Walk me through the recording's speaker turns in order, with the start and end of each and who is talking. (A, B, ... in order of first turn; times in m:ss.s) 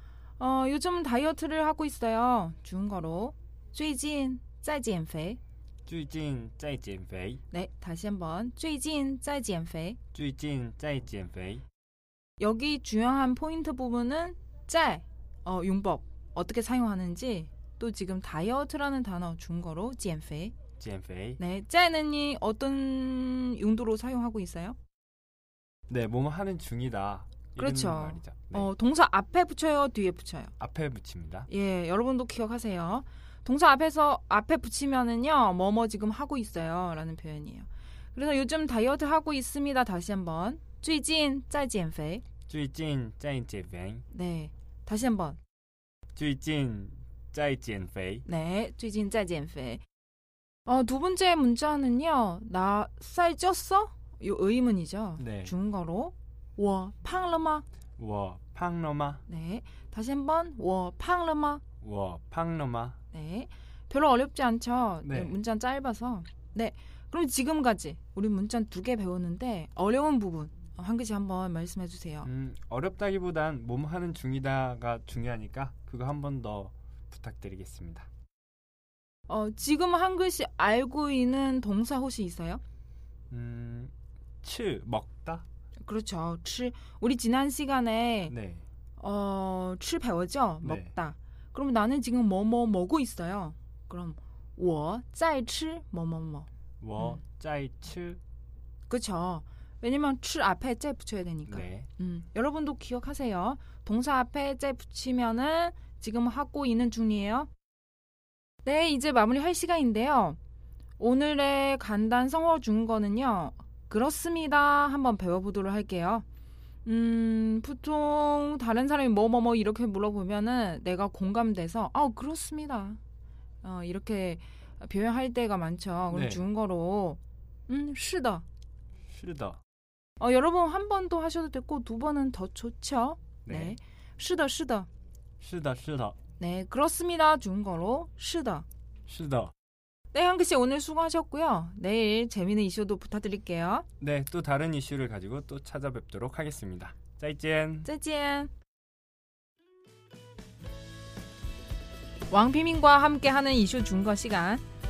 0:00.4-0:05.4 A
0:05.8-0:07.4 B
0:07.5-0:10.0 A
0:10.1-0:11.6 B
0:12.4-0:20.6 A
0:20.8-0:21.4 B
0:21.4-0:24.8 A
0:25.9-0:28.7 B
0:27.6-0:30.5 A
0:30.6-0:31.5 B
0:31.5-0:42.2 A
0:42.5-0:44.0 B
0:44.1-0:45.4 A
0:46.1-0:48.2 B
0:48.2-0:49.8 A
0:50.6-0:57.6 A
0:55.2-0:55.5 B
0:58.0-0:59.2 B
0:59.2-1:01.6 A
1:01.8-1:03.0 B
1:03.1-1:12.3 A
1:05.0-1:05.4 B
1:12.2-1:18.1 B
1:19.3-1:22.6 A
1:23.3-1:23.9 B
1:24.4-1:25.4 B
1:25.8-1:28.4 A
1:28.3-1:28.6 B
1:29.0-1:37.2 A
1:30.6-1:30.9 B
1:36.8-1:38.2 B
1:38.9-1:47.5 A
1:41.5-1:41.9 B
1:48.6-1:50.4 A
1:51.0-1:56.2 A
1:56.8-2:03.0 A
2:03.6-2:08.4 A
2:06.1-2:06.4 B
2:09.1-2:09.6 B
2:10.2-2:14.9 A
2:13.4-2:13.8 B
2:15.4-2:16.2 B
2:16.4-2:18.6 A
2:19.1-2:19.5 B
2:20.1-2:23.8 A
2:24.0-2:27.9 B
2:27.8-2:28.5 A
2:32.3-2:34.6 A